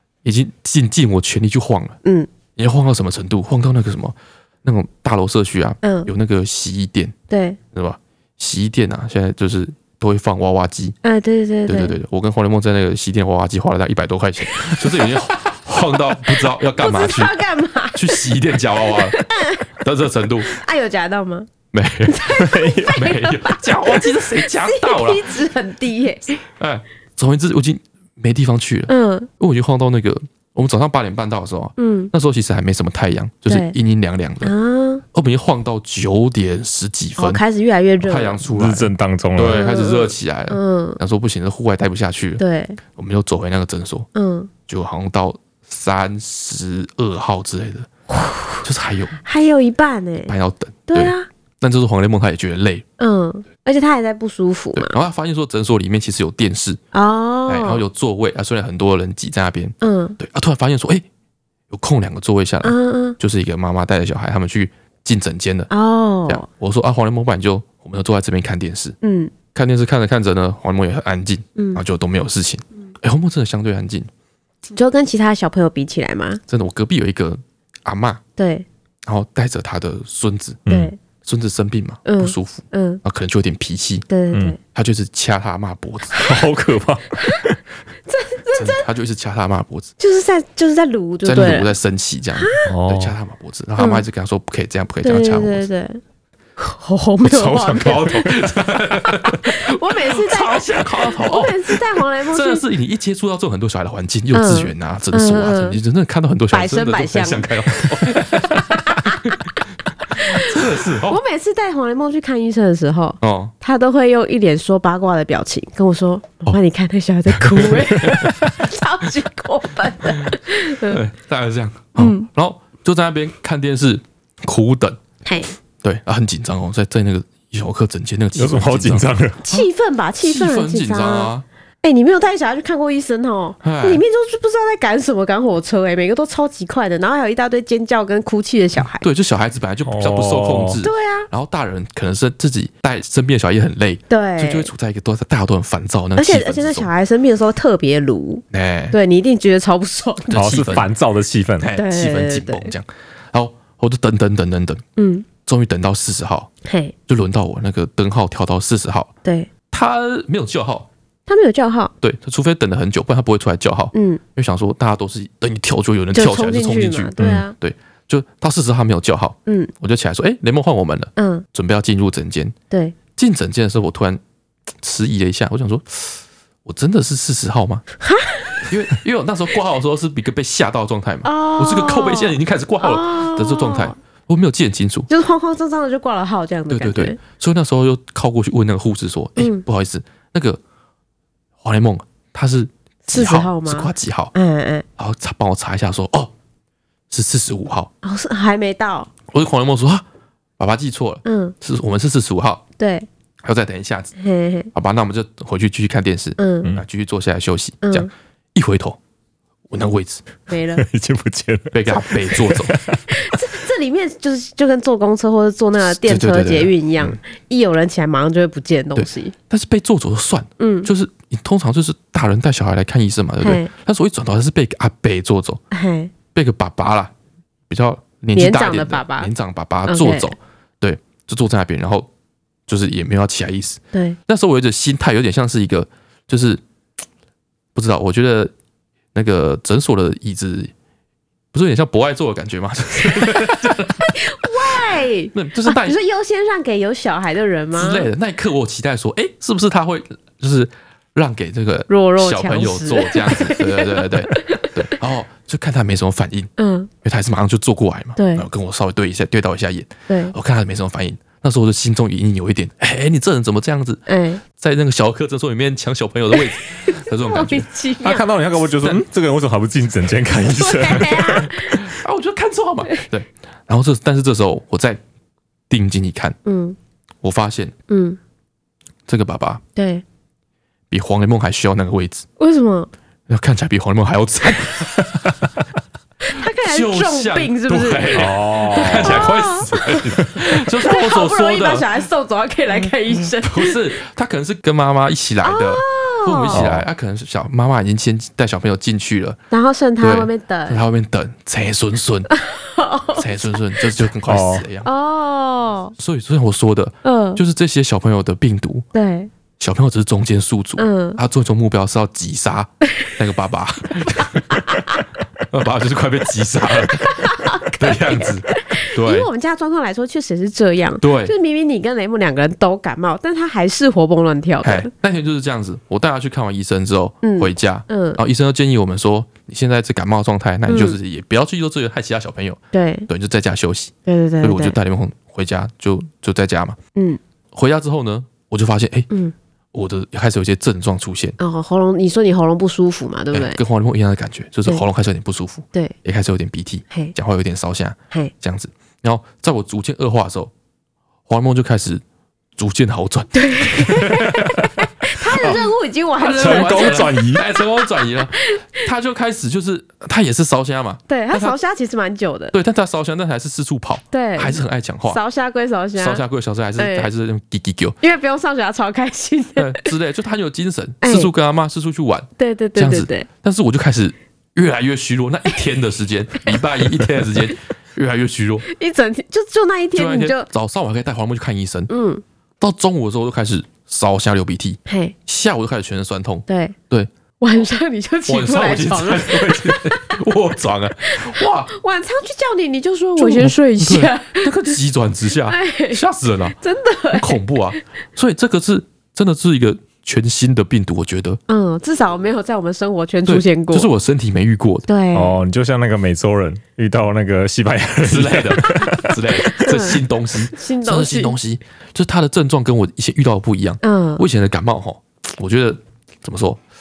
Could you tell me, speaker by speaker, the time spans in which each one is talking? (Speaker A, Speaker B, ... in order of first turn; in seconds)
Speaker A: 0.2-2.0, 2.5-7.1, 7.7-10.9, 11.7-17.3, 17.9-19.2, 19.7-20.5, 21.7-25.4, 26.6-34.5, 35.1-37.4, 38.0-42.4, 42.9-44.1, 44.7-47.9, 48.6-49.2, 50.3-52.8, 54.7-56.8, 57.5-61.0, 61.7-65.7, 66.3-69.0, 69.5-74.1, 76.5-78.2, 79.0-80.7, 81.2-84.0, 84.7-86.2, 88.5-89.9, 91.2-95.7, 97.2-109.5, 110.1-111.2, 113.2-113.5, 117.3-118.5, 120.0-125.0, 125.8-129.7, 130.2-131.4, 133.6-134.0, 138.9-146.9, 148.5-149.0, 150.3-150.9, 151.6-154.8, 155.4-156.5, 157.1-159.1, 159.7-160.9, 162.0-172.5, 173.2-174.2, 174.8-177.8, 178.6-185.1, 186.7-190.6, 191.6-194.3, 195.0-196.3, 197.1-197.9, 199.3-200.0, 200.6-202.6, 203.4-204.1, 204.7-209.0, 209.7-210.3, 211.7-212.7, 215.8-217.2, 218.9-225.6, 226.3-227.1, 227.7-232.1, 232.7-236.6, 237.7-238.5, 239.1-240.7, 241.5-246.0, 247.7-256.5, 257.0-267.7, 268.7-269.0, 271.6-275.0, 275.7-276.4, 277.2-277.7, 279.1-279.6, 280.9-282.2, 283.3-285.1, 286.6-291.9, 293.4-299.4, 300.0-302.3, 303.1-304.9, 306.0-308.9, 309.6-314.8, 315.5-319.3, 321.0-321.3, 324.6-336.8, 337.5-339.1, 339.7-341.4, 343.3-350.5, 351.3-352.0, 352.6-354.6, 355.3-355.6, 356.2-361.6, 362.5-365.2, 365.9-368.0, 369.6-378.6, 379.9-381.9, 382.6-387.1, 388.3-391.7, 393.1-396.6, 397.1-401.4, 403.2-404.9, 408.0-416.6
Speaker B: 2.0-2.3, 5.8-6.1, 7.3-7.6, 11.0-11.9, 14.5-14.8, 16.7-19.7, 20.4-21.5, 22.1-26.4, 28.9-29.3, 31.8-32.1, 33.5-33.7, 34.4-35.0, 37.2-38.4, 39.4-41.0, 42.4-42.8, 44.1-44.5, 48.1-48.6, 49.2-50.3, 50.9-51.3, 53.0-54.9, 56.9-57.8, 59.8-60.2, 62.6-63.2, 65.7-66.5, 69.0-69.3, 71.5-71.8, 74.7-76.4, 78.4-78.7, 80.7-81.0, 82.0-83.0, 84.1-84.6, 88.0-88.8, 90.0-91.7, 92.3-92.7, 93.8-94.0, 95.0-96.0, 96.6-98.3, 99.1-102.7, 104.3-105.8, 106.5-109.3, 110.2-110.5, 111.0-121.0, 122.0-122.3, 125.2-125.5, 129.4-131.3, 131.8-139.1, 140.8-141.3, 144.1-144.7, 146.2-150.6, 151.7-152.7, 155.0-155.2, 156.6-156.9, 159.2-159.5, 161.3-161.9, 163.9-164.2, 166.1-167.5, 169.4-169.7, 171.2-171.4, 172.7-172.9, 178.0-178.7, 181.2-183.9, 185.1-187.2, 189.4-189.6, 193.1-194.8, 198.0-199.1, 201.2-201.5, 202.8-203.1, 204.2-204.7, 206.4-206.7, 207.8-208.1, 210.5-210.8, 213.1-219.3, 220.6-220.9, 223.4-223.7, 225.7-226.1, 228.3-229.3, 229.8-230.3, 233.9-234.2, 243.1-248.1, 251.9-254.7, 256.6-256.9, 258.1-258.4, 260.1-260.3, 264.1-264.4, 266.3-268.2, 270.5-271.8, 276.4-276.8, 277.9-278.2, 279.7-280.0, 282.4-282.9, 286.2-290.1, 290.8-293.8, 295.4-296.6, 299.5-300.8, 302.3-303.8, 304.8-305.9, 307.0-307.4, 308.9-309.3, 310.8-311.2, 314.1-315.0, 316.9-324.9, 327.2-328.2, 330.7-331.0, 332.7-333.1, 334.1-334.8, 341.4-343.6, 353.3-358.8, 361.1-362.5, 364.1-366.2, 366.8-367.1, 368.0-369.9, 371.0-371.3, 372.4-373.3, 378.6-380.5, 381.9-382.2, 384.9-385.1, 386.5-386.8, 387.4-390.2, 391.0-394.8, 395.5-396.0, 396.6-397.4, 401.5-403.9, 404.9-405.4, 409.4-411.4, 413.8-414.2
Speaker C: 22.4-22.8, 38.5-39.6, 80.7-80.9, 86.1-87.6, 92.7-93.1, 128.3-129.4, 139.8-140.8, 150.3-151.7, 167.2-167.4, 210.8-213.2, 268.0-271.7, 288.1-289.4, 296.5-296.9, 304.2-304.6, 356.4-357.4, 405.1-409.7